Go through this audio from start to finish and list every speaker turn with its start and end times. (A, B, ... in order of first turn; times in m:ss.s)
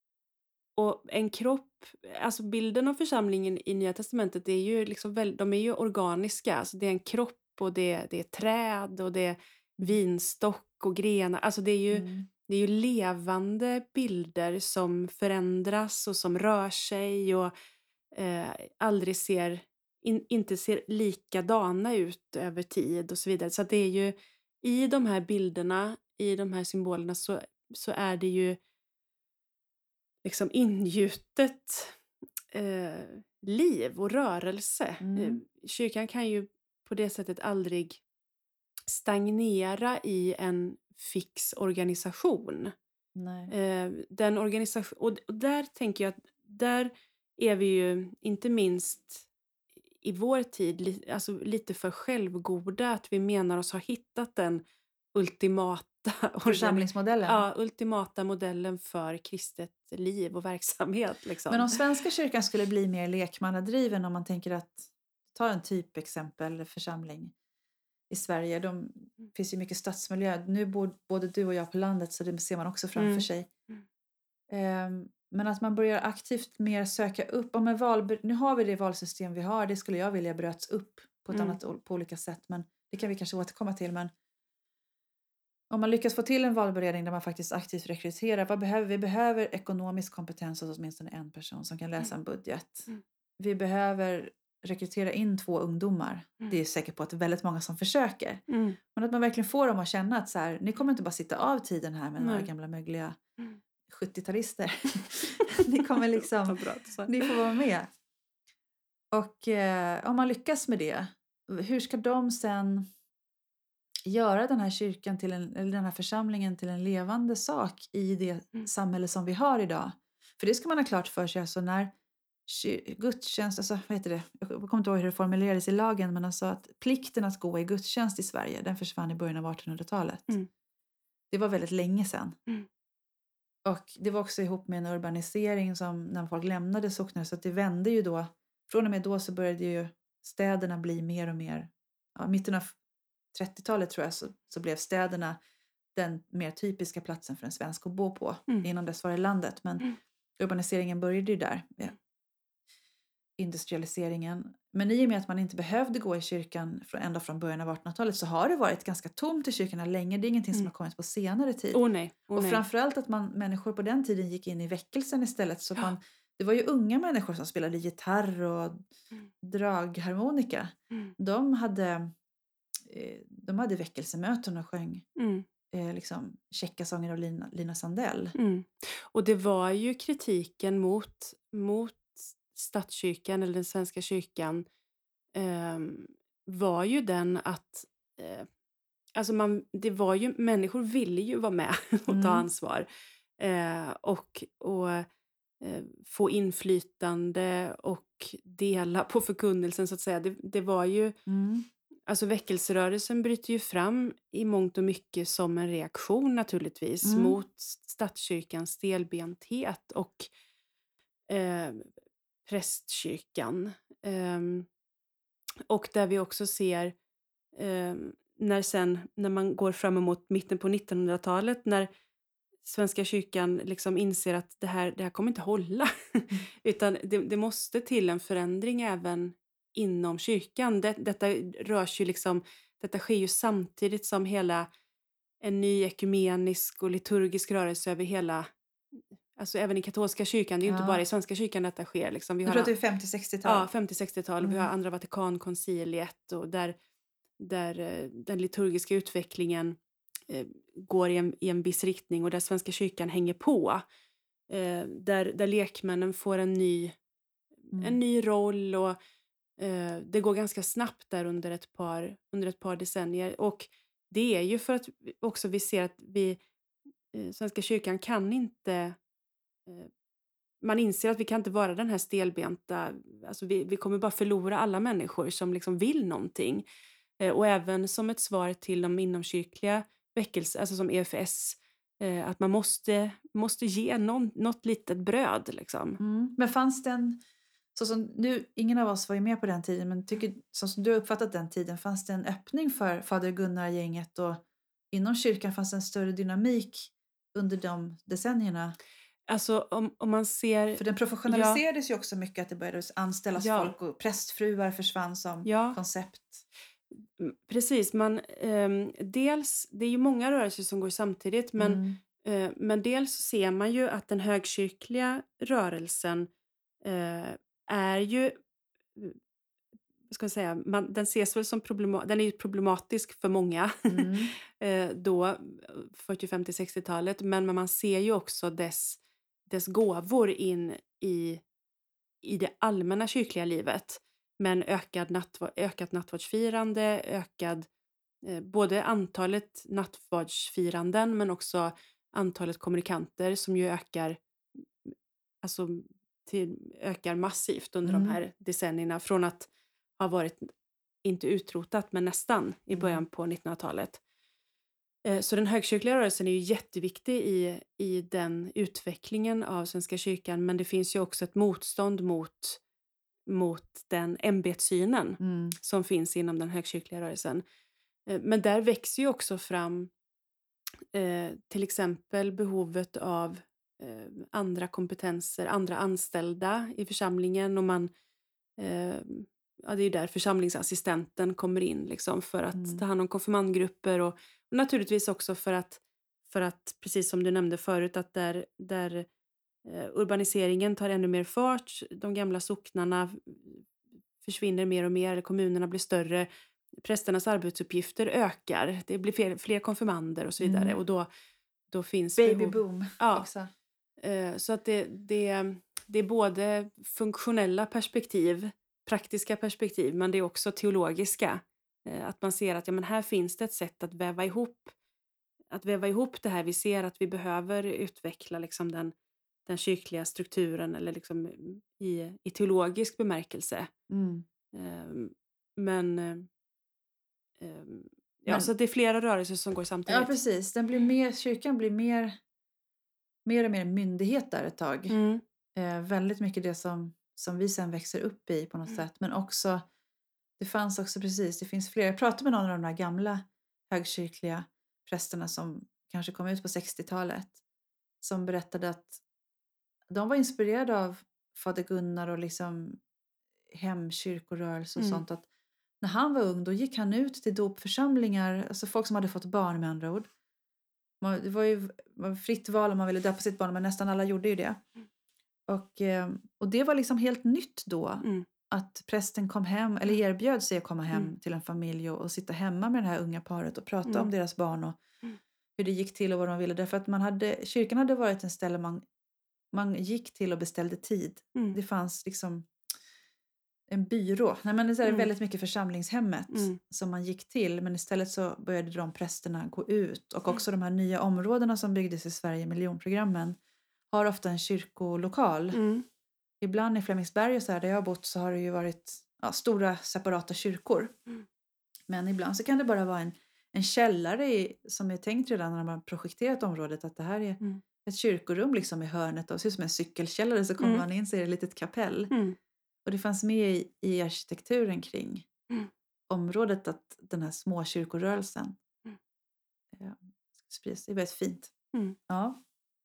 0:00.8-0:17.5 A
0:11.9-0:12.3 B
0:18.1-0:28.6 A
0:30.2-0:32.0 A
0:32.5-0:38.0 A
0:35.0-0:35.4 B
0:38.9-0:42.7 A
0:43.1-0:43.5 B
0:43.5-0:49.2 A
0:50.0-0:54.6 A
0:55.1-1:01.8 A
0:56.4-0:57.4 B
1:01.5-1:07.3 B
1:08.1-1:13.5 B
1:13.0-1:13.2 A
1:14.5-1:24.1 B
1:21.3-1:21.6 A
1:25.7-1:43.2 B
1:38.5-1:38.8 A
1:42.2-1:42.5 A
1:43.9-1:47.9 B
1:46.4-1:47.3 A
1:49.1-1:52.8 B
1:54.0-2:01.9 B
2:02.5-2:10.3 B
2:11.3-2:12.4 B
2:13.6-2:22.8 B
2:23.3-2:25.4 B
2:25.9-2:32.0 B
2:33.4-2:41.8 B
2:41.7-2:42.6 A
2:42.3-2:48.8 B
2:49.4-2:52.1 B
2:52.8-2:55.0 B
2:55.2-2:55.4 A
2:55.7-2:58.3 B
2:58.3-3:04.6 A
3:05.3-3:08.5 A
3:09.2-3:12.8 A
3:12.1-3:12.4 B
3:13.4-3:15.1 A
3:15.6-3:21.2 A
3:21.2-3:21.7 B
3:22.1-3:30.3 A
3:27.0-3:27.4 B
3:31.3-3:31.9 A
3:32.4-3:34.7 A
3:35.7-3:36.9 A
3:37.5-3:41.9 A
3:42.6-3:54.7 A
3:55.4-3:58.5 A
3:59.3-4:02.7 A
4:00.6-4:01.0 B
4:02.4-4:03.7 B
4:03.4-4:06.8 A
4:04.4-4:04.7 B
4:07.4-4:09.8 A
4:10.3-4:13.8 A
4:14.5-4:17.0 A
4:17.7-4:19.0 A
4:17.7-4:18.0 B
4:19.6-4:26.4 A
4:27.1-4:29.0 A
4:30.6-4:36.6 A
4:37.2-4:46.0 A
4:46.0-4:47.2 B
4:47.7-4:58.8 B
4:59.3-5:01.6 A
5:00.8-5:06.4 B
5:03.4-5:03.7 A
5:05.4-5:05.8 A
5:07.2-5:16.3 A
5:11.6-5:12.0 B
5:16.8-5:18.4 A
5:20.1-5:31.4 A
5:23.9-5:24.3 B
5:32.2-5:37.7 A
5:38.2-5:44.2 A
5:45.4-5:50.5 A
5:47.8-5:48.2 B
5:51.0-5:54.0 A
5:52.7-5:53.0 B
5:55.0-6:02.6 A
6:03.3-6:07.4 A
6:05.2-6:05.5 B
6:08.1-6:09.9 A
6:10.9-6:17.9 A
6:18.6-6:29.0 A
6:22.5-6:22.8 B
6:29.6-6:33.7 A
6:34.2-6:41.1 A
6:40.4-6:40.8 B
6:41.7-6:43.3 A
6:42.2-6:43.5 B
6:44.0-6:54.7 A
6:55.5-6:58.9 A
6:59.4-7:03.7 A
7:03.9-7:04.2 B
7:04.5-7:06.3 A
7:07.4-7:10.1 A
7:09.9-7:12.2 B
7:13.2-7:14.9 B
7:14.9-7:15.2 A
7:15.5-7:19.6 B
7:20.4-7:27.4 B
7:28.0-7:29.0 B
7:29.9-7:32.8 B
7:33.5-7:35.2 B
7:34.8-7:35.0 A
7:35.8-7:40.1 B
7:41.0-7:44.6 B
7:45.5-7:54.8 B
7:55.6-7:58.8 B
7:59.5-8:02.5 B
8:03.7-8:13.4 B
8:06.3-8:06.6 A
8:13.9-8:15.6 B
8:15.5-8:15.8 A
8:16.4-8:20.9 B
8:21.9-8:32.1 B
8:32.1-8:32.4 A
8:32.8-8:35.3 B
8:36.1-8:38.6 B
8:39.7-8:41.5 B
8:42.1-8:42.4 B